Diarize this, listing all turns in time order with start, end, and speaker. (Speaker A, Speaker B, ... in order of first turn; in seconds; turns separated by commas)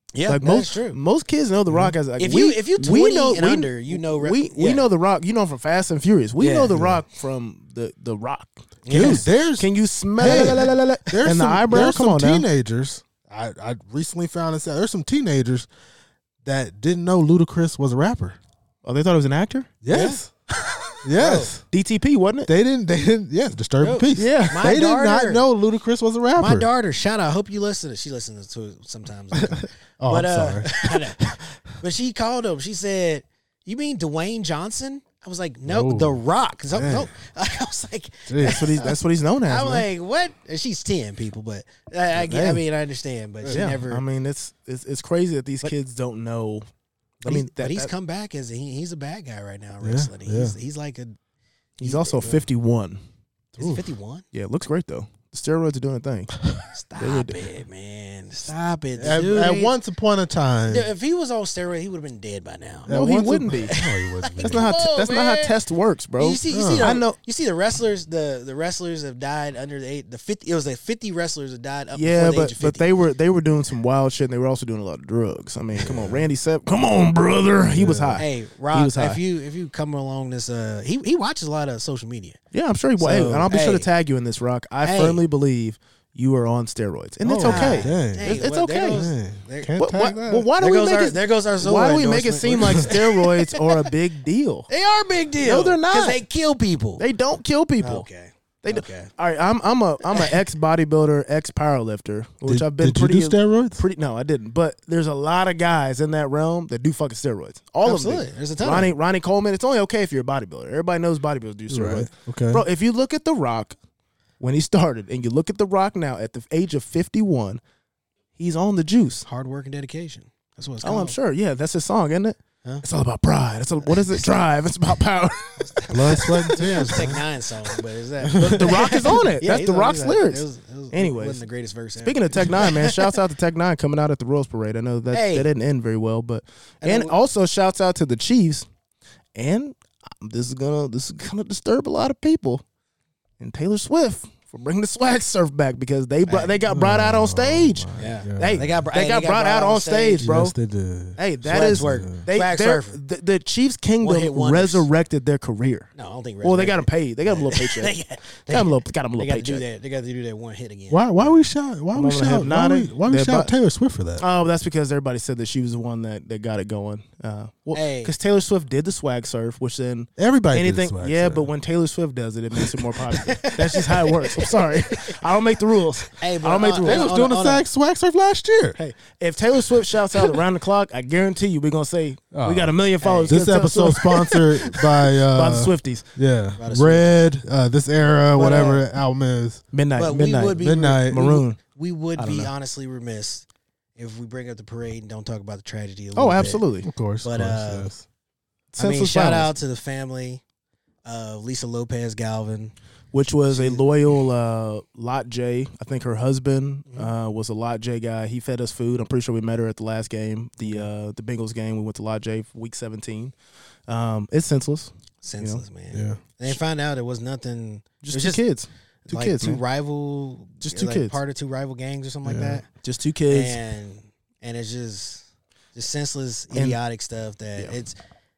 Speaker A: 0.1-1.0, Speaker B: 0.3-12.5, Speaker C: 1.7-2.0, Speaker A: 2.2-4.8, Speaker A: 6.4-6.8, Speaker C: 6.7-7.0, Speaker A: 8.8-9.3, Speaker C: 8.9-15.7, Speaker A: 10.2-10.7, Speaker C: 16.4-18.4, Speaker B: 18.8-19.7, Speaker C: 19.8-20.3, Speaker A: 19.9-20.2, Speaker C: 21.0-21.6, Speaker A: 21.2-21.5, Speaker B: 21.7-22.5, Speaker C: 22.5-26.7, Speaker A: 23.8-25.4, Speaker B: 24.2-24.7, Speaker A: 26.4-31.3, Speaker C: 29.4-31.4, Speaker A: 31.8-44.0, Speaker C: 35.7-36.2, Speaker C: 36.7-37.1, Speaker C: 38.3-38.7, Speaker B: 38.4-39.9, Speaker B: 42.1-42.6, Speaker C: 43.4-43.7, Speaker B: 43.5-46.7, Speaker B: 47.2-47.9, Speaker A: 47.2-51.2, Speaker C: 49.8-50.5, Speaker B: 51.8-53.0, Speaker A: 51.8-52.5, Speaker C: 53.5-53.8, Speaker A: 53.6-54.2, Speaker B: 54.3-56.4, Speaker A: 56.7-59.8, Speaker B: 57.0-57.4, Speaker C: 59.0-60.9, Speaker A: 60.7-63.0, Speaker C: 62.9-64.7, Speaker B: 62.9-63.8, Speaker A: 63.6-65.5, Speaker B: 64.4-67.2, Speaker A: 66.2-72.9, Speaker C: 66.5-66.9, Speaker B: 71.9-79.2, Speaker C: 75.8-76.2, Speaker C: 77.7-78.2, Speaker A: 78.2-82.4, Speaker B: 82.5-89.1, Speaker A: 83.0-83.9, Speaker A: 84.8-85.2, Speaker C: 87.2-90.5, Speaker A: 87.4-89.7, Speaker B: 89.8-94.7, Speaker A: 90.6-93.7, Speaker A: 94.7-97.0, Speaker B: 95.4-96.2, Speaker B: 97.0-98.1, Speaker A: 97.8-99.1, Speaker B: 98.6-113.8, Speaker C: 102.5-103.8, Speaker A: 107.8-108.9, Speaker C: 111.7-112.6, Speaker B: 114.4-117.6, Speaker B: 118.4-119.3, Speaker A: 119.2-121.2, Speaker B: 120.8-127.1, Speaker A: 123.9-124.3, Speaker A: 125.6-133.2, Speaker C: 125.9-127.2, Speaker C: 128.3-128.8, Speaker B: 128.4-131.4, Speaker B: 132.0-138.7, Speaker A: 135.1-135.5, Speaker A: 136.8-137.2, Speaker B: 139.3-142.6, Speaker B: 143.4-150.6, Speaker A: 146.3-146.6, Speaker C: 146.7-148.8, Speaker A: 148.0-150.3, Speaker C: 150.2-152.2, Speaker B: 151.2-155.9, Speaker A: 151.5-153.0, Speaker A: 154.0-154.9, Speaker A: 156.0-161.3, Speaker B: 156.4-157.9, Speaker B: 158.5-159.6, Speaker C: 160.9-164.2, Speaker B: 161.9-163.5, Speaker B: 164.2-177.1, Speaker A: 167.7-168.1, Speaker C: 170.2-171.5, Speaker A: 173.1-175.2, Speaker A: 176.1-177.6, Speaker C: 176.8-178.8, Speaker B: 178.8-186.1, Speaker C: 182.3-182.8, Speaker A: 183.0-183.4, Speaker C: 183.3-189.6, Speaker A: 186.6-187.3, Speaker A: 188.4-188.8, Speaker B: 189.7-191.6, Speaker A: 190.0-196.6, Speaker C: 190.6-191.4, Speaker B: 192.2-192.5, Speaker B: 196.2-196.9, Speaker C: 196.8-198.1, Speaker A: 197.2-197.9, Speaker B: 198.7-199.5, Speaker A: 198.8-200.4, Speaker A: 201.1-202.8, Speaker B: 203.1-213.3, Speaker A: 203.5-203.9, Speaker B: 213.9-215.6, Speaker A: 215.2-218.4, Speaker C: 215.9-216.2, Speaker B: 218.0-219.6, Speaker A: 219.1-222.7, Speaker B: 220.6-221.2, Speaker C: 222.2-222.6, Speaker B: 222.8-223.6, Speaker A: 223.3-228.0, Speaker B: 226.5-226.8